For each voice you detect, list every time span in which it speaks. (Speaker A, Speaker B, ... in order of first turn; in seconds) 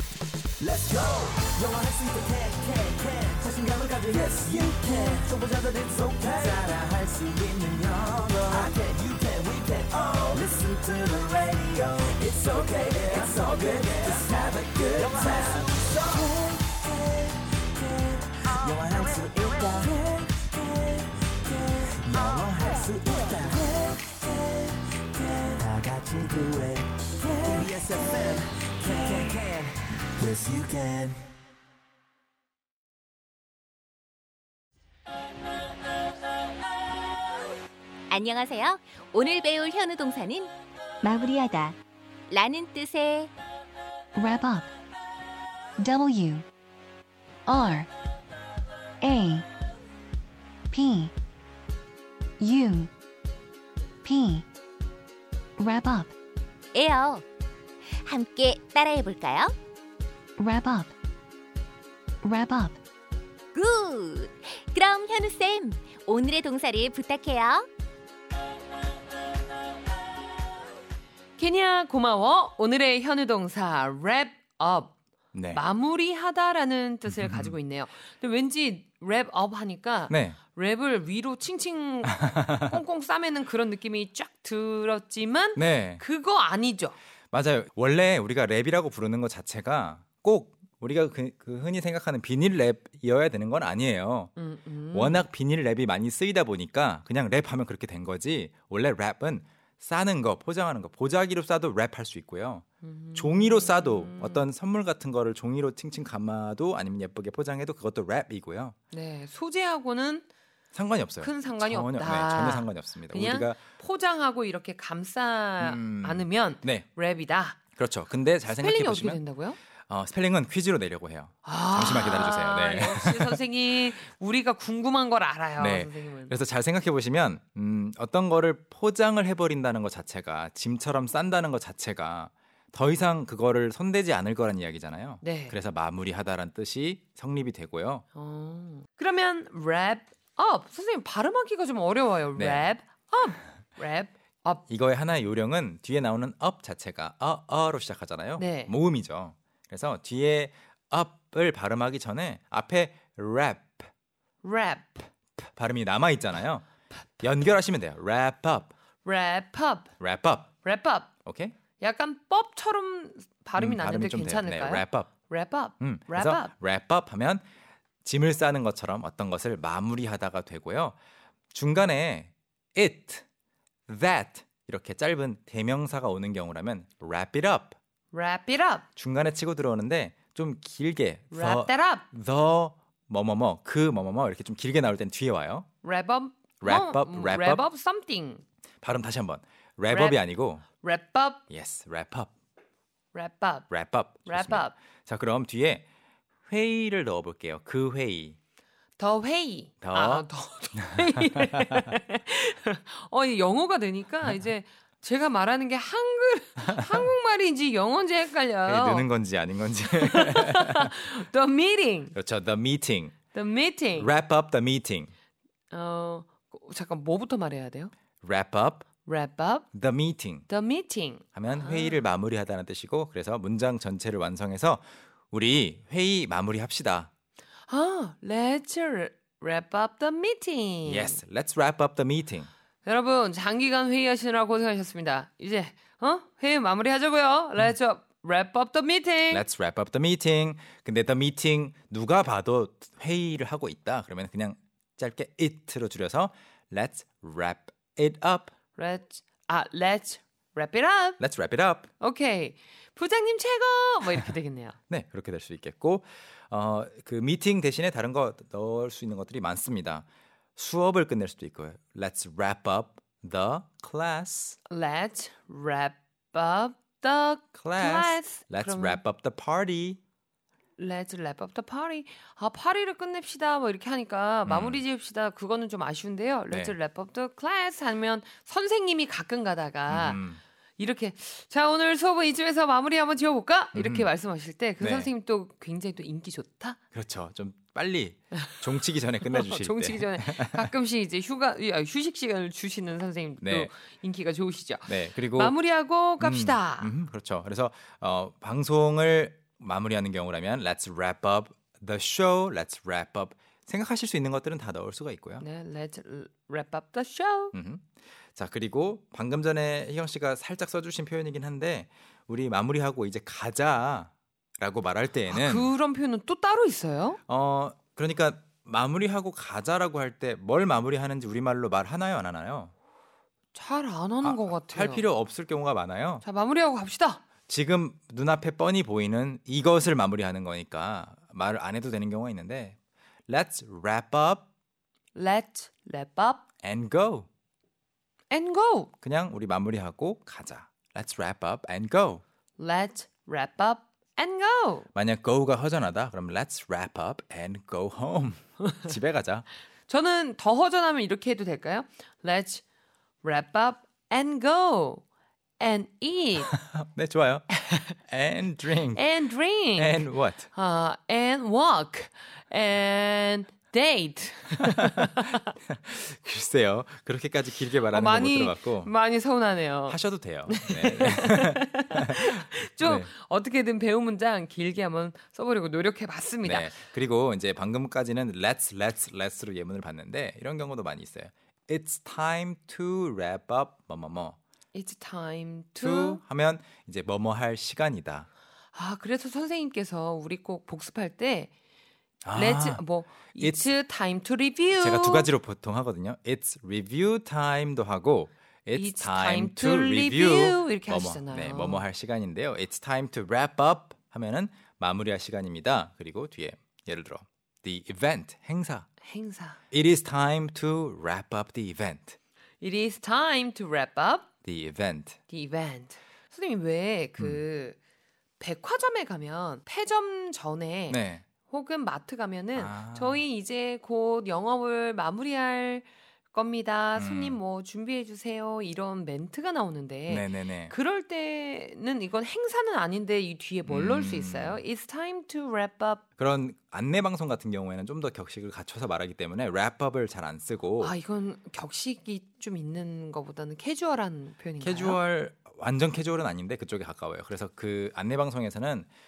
Speaker A: 0.6-17.2, 17.8-24.4, 25.2-31.2
Speaker B: 38.1-40.5, 41.0-41.8, 42.3-43.3, 56.7-57.2, 58.0-59.5, 63.5-67.7
Speaker C: 41.1-41.5, 44.1-44.7, 45.8-46.5, 47.5-47.9, 49.0-49.5, 50.7-51.1, 52.4-52.9, 54.0-54.5, 55.6-56.1, 60.4-60.9, 62.2-62.8
Speaker D: 71.4-74.9, 75.5-87.0, 94.4-95.2, 102.8-104.5, 108.9-110.3, 111.2-117.6, 118.5-119.6, 121.5-126.3, 135.2-135.6, 138.1-144.7, 148.4-148.7, 154.4-155.1, 159.0-159.9, 160.6-161.1, 161.8-166.5, 178.1-178.9, 181.3-182.1, 185.8-188.4, 189.9-190.2, 190.8-191.4, 193.1-193.7, 194.3-194.8, 199.0-209.1, 209.9-212.2, 213.3-214.1, 215.7-217.9, 219.1-219.7, 220.5-222.0, 227.7-231.2, 232.8-239.4, 248.8-251.2, 252.0-254.8, 264.7-269.0, 270.8-280.2, 280.8-286.8, 289.2-296.9, 305.4-307.6, 315.3-317.2, 323.5-325.1, 326.2-327.2, 335.1-336.4, 338.3-338.9, 342.6-344.9, 349.9-352.6, 353.2-355.0, 355.6-356.5, 358.9-365.4, 367.9-376.7, 384.7-386.2, 388.7-391.5, 392.3-395.3, 398.7-401.8, 409.0-409.6, 412.6-414.3, 415.3-417.8, 418.4-436.0, 440.8-445.0
Speaker E: 75.3-75.6, 77.1-77.6, 80.1-80.4, 82.0-82.8, 85.6-86.0, 87.3-94.3, 94.9-102.6, 103.2-108.8, 110.7-113.6, 115.6-116.9, 117.8-119.2, 119.9-123.4, 125.6-138.0, 142.4-142.7, 144.7-153.9, 155.4-156.6, 157.2-158.7, 160.0-160.5, 161.2-161.6, 163.6-165.1, 165.8-167.4, 168.0-171.0, 171.5-173.2, 173.9-177.8, 179.0-185.7, 186.6-187.6, 188.8-190.7, 191.5-192.3, 193.7-195.8, 196.5-198.4, 199.8-201.9, 206.6-207.0, 208.7-211.0, 212.1-213.2, 214.0-215.1, 218.2-218.9, 219.7-220.5, 221.3-227.1, 230.8-232.5, 239.3-248.5, 251.2-251.9, 254.9-260.1, 260.6-264.6, 267.6-270.0, 274.4-274.8, 276.5-276.8, 279.9-280.4, 283.7-284.1, 284.8-285.1, 286.9-290.7, 293.4-293.7, 294.9-295.6, 296.2-305.4, 307.5-315.7, 317.3-322.7, 324.2-326.2, 327.5-332.8, 333.3-334.4, 336.6-337.3, 339.0-342.2, 344.9-349.5, 356.4-359.1, 359.7-360.5, 364.6-368.9, 369.9-373.1, 376.4-384.4, 385.8-388.3, 392.2-393.7, 394.8-408.9, 409.7-412.2, 414.4-415.2, 420.9-421.2, 422.6-423.2, 427.0-427.4, 430.1-430.7, 433.7-434.6, 436.2-440.9, 444.6-448.9